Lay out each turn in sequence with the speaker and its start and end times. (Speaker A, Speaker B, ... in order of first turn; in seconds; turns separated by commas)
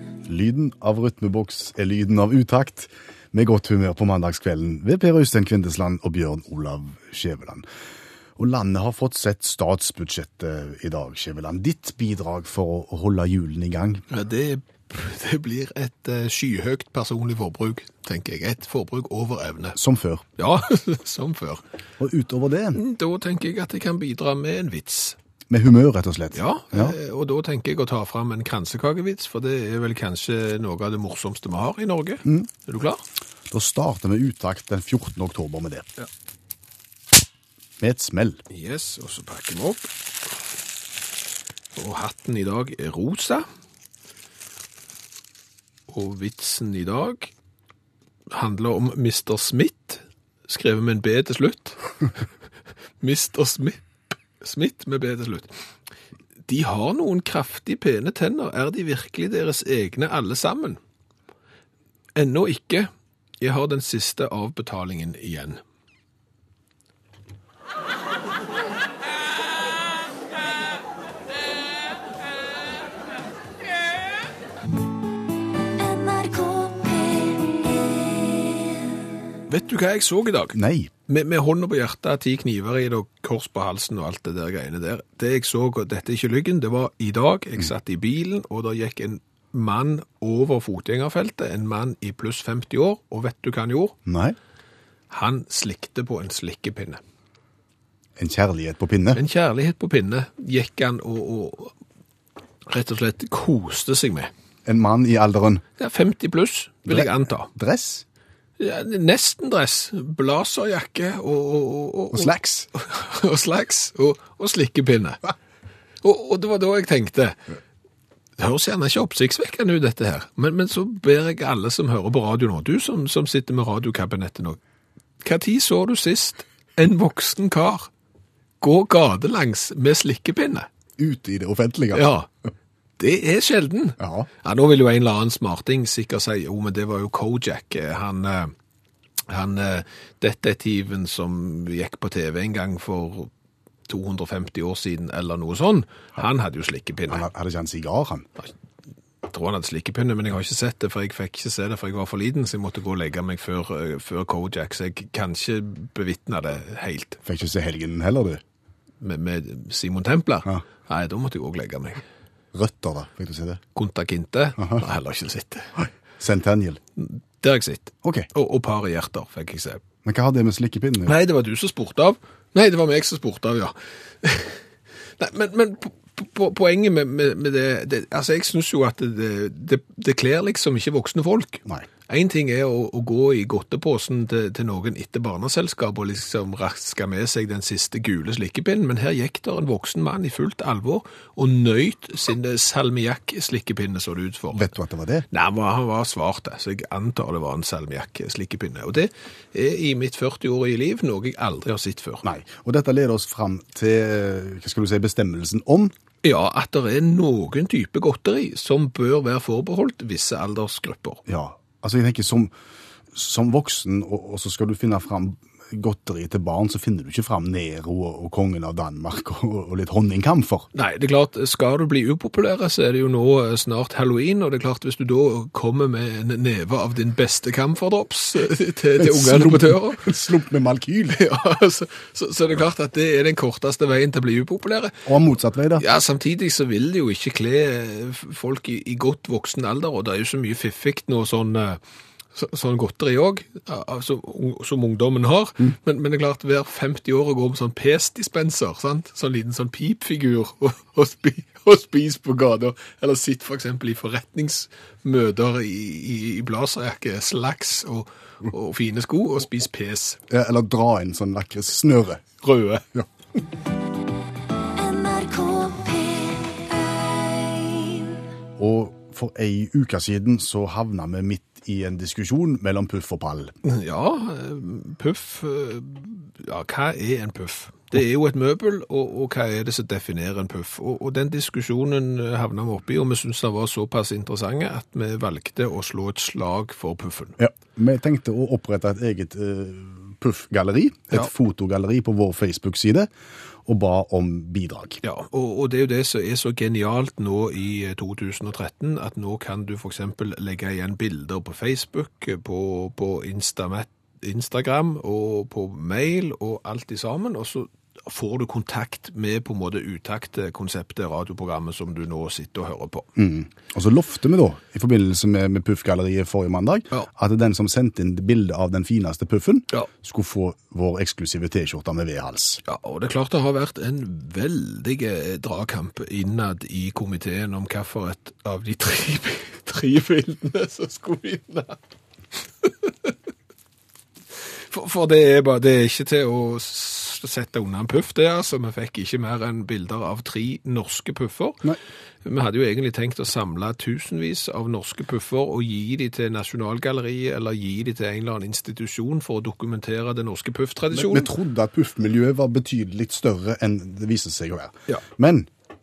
Speaker A: 0.2-7.7, Speaker A: 8.4-14.0, Speaker B: 14.1-19.8, Speaker A: 19.7-20.2, Speaker B: 20.4-21.6, Speaker A: 22.0-22.8, Speaker B: 22.7-25.2, Speaker A: 25.5-26.9, Speaker B: 26.3-33.0, Speaker A: 33.5-35.9, Speaker A: 37.8-38.4, Speaker B: 38.5-39.9, Speaker B: 41.8-43.4, Speaker B: 45.9-47.3, Speaker B: 48.3-51.8, Speaker B: 53.0-53.8, Speaker B: 54.4-55.5, Speaker B: 56.5-60.8, Speaker B: 62.1-65.6, Speaker C: 75.7-78.5, Speaker B: 79.5-94.0, Speaker A: 80.5-80.9, Speaker A: 94.0-94.3, Speaker B: 95.1-97.0, Speaker A: 98.2-99.2, Speaker B: 99.1-101.7, Speaker B: 102.7-104.3, Speaker A: 104.7-105.6, Speaker B: 105.8-107.5, Speaker A: 106.9-108.0, Speaker B: 108.6-115.2, Speaker A: 112.1-112.7, Speaker B: 116.0-117.4, Speaker B: 118.4-124.6, Speaker B: 125.2-127.9, Speaker B: 128.6-130.7, Speaker A: 131.0-132.1, Speaker B: 131.9-132.3, Speaker B: 133.0-138.5, Speaker A: 134.0-134.3, Speaker B: 139.3-143.3, Speaker B: 143.9-147.2, Speaker A: 147.1-148.3, Speaker B: 149.2-157.2, Speaker A: 157.2-158.4, Speaker B: 159.0-162.0, Speaker A: 162.5-163.6, Speaker B: 163.8-165.7, Speaker A: 164.6-164.8, Speaker A: 165.8-166.8, Speaker B: 167.0-169.8, Speaker A: 168.0-168.3, Speaker A: 170.0-171.1, Speaker B: 171.0-194.7, Speaker A: 194.5-195.2, Speaker B: 195.3-202.2, Speaker A: 202.2-205.9, Speaker B: 206.2-211.2, Speaker A: 211.3-212.5, Speaker A: 213.1-220.7, Speaker B: 220.7-230.1, Speaker A: 229.0-231.2, Speaker B: 231.1-235.1, Speaker A: 235.1-235.8, Speaker B: 235.8-241.8, Speaker B: 242.3-260.2, Speaker A: 260.3-262.2, Speaker B: 262.4-262.9, Speaker C: 264.6-268.2, Speaker A: 268.6-273.5, Speaker B: 273.6-287.4, Speaker A: 287.4-293.1, Speaker A: 293.6-295.0, Speaker B: 295.0-313.1, Speaker A: 313.1-322.6, Speaker B: 322.6-331.8, Speaker B: 332.3-333.1, Speaker B: 334.3-341.7, Speaker B: 342.2-351.3, Speaker A: 350.9-355.5